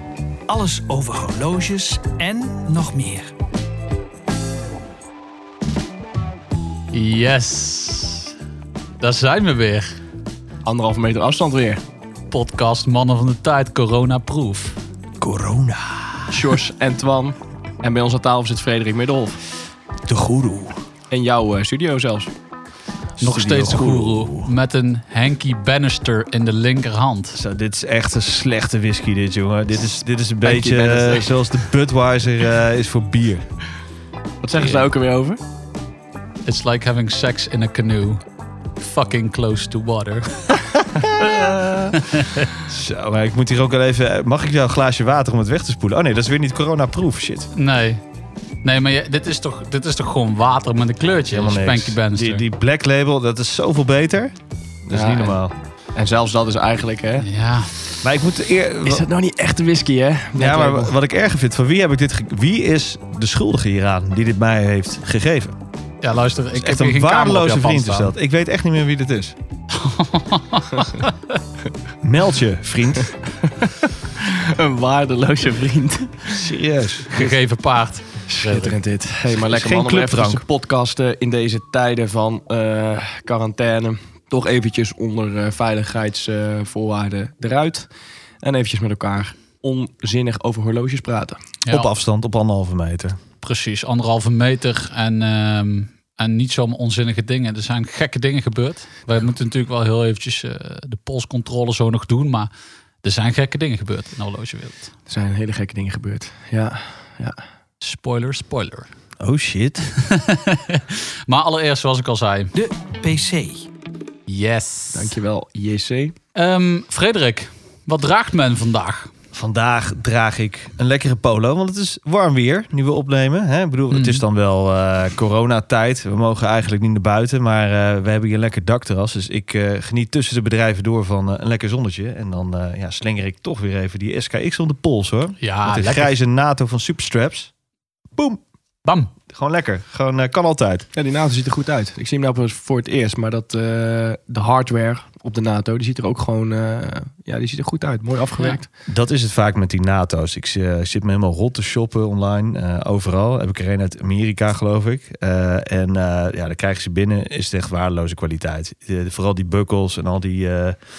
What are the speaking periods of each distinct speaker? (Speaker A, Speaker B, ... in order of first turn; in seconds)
Speaker A: 0.5-3.3, 15.2-15.5, 112.5-113.7
Speaker B: 6.9-8.3, 9.0-10.0, 12.3-14.8, 23.2-27.4, 36.4-38.2, 38.8-40.4, 41.9-42.5, 47.5-48.0, 48.6-52.4, 57.2-57.8, 66.0-68.1, 69.7-71.1, 77.1-78.8, 93.4-102.5, 103.0-104.9, 107.8-108.9, 110.0-112.5, 114.3-115.2, 116.3-119.1, 123.9-124.2, 135.4-136.1, 138.8-139.1
Speaker C: 10.6-11.8, 16.3-19.4, 21.1-22.3, 30.4-31.4, 34.4-35.4, 54.9-55.4, 56.0-57.3, 58.8-60.9, 73.4-76.5, 78.3-87.9, 88.4-91.4, 105.1-107.3, 114.9-116.2, 140.9-148.7
Speaker D: 15.2-16.0, 20.1-20.7, 23.2-24.5, 27.3-33.4, 41.0-41.5, 42.6-47.5, 51.3-55.5, 58.0-59.1, 60.4-65.6, 66.5-69.3, 72.0-73.1, 76.3-77.1, 79.3-80.4, 91.7-93.2, 109.2-109.9, 119.3-137.5, 138.2-138.4, 139.3-140.8, 148.9-160.8